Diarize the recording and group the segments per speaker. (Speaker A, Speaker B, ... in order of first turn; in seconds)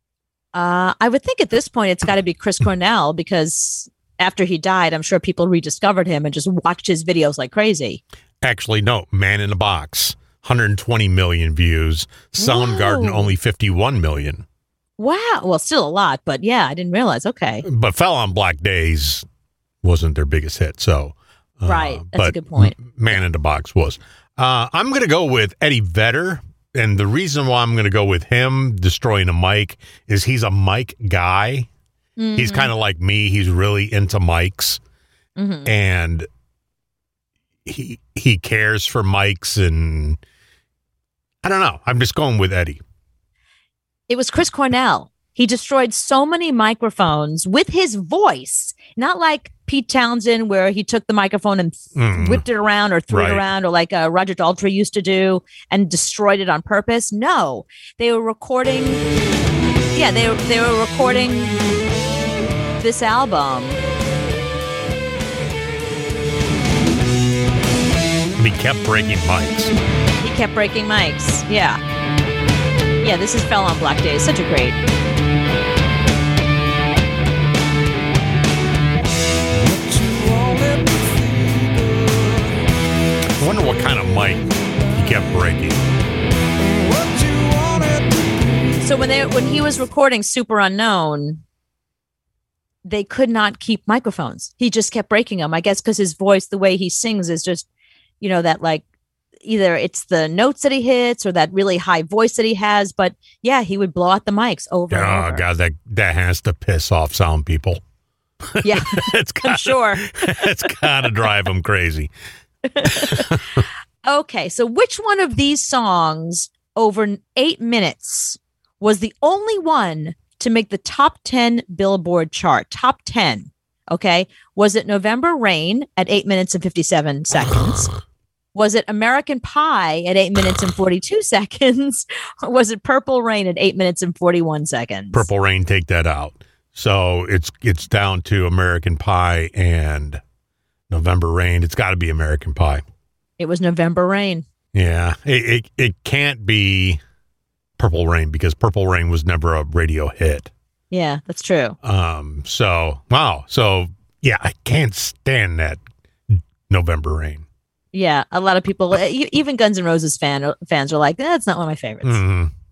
Speaker A: 0.5-8.0, 12.4-13.3, 15.0-17.6, 21.7-23.2, 32.2-32.7, 35.4-35.7, 44.1-59.0, 59.9-61.6, 62.8-63.8, 70.2-71.8, 73.0-74.8, 88.8-91.4, 92.8-97.7, 98.2-98.8, 99.4-105.5, 108.6-110.1, 112.7-113.3, 114.0-127.9, 128.6-135.3, 143.4-144.5, 150.9-151.8, 157.9-162.2
Speaker B: 8.4-14.4, 17.6-19.3, 19.8-31.7, 32.4-34.8, 35.6-36.3, 37.6-40.2, 41.4-42.8, 52.0-52.4, 53.1-53.5, 68.4-69.7, 83.4-85.8, 104.9-107.8, 108.6-112.1, 112.8-113.6, 135.1-140.2, 140.9-142.8, 144.7-147.0, 147.8-150.5, 151.8-157.4, 162.0-162.5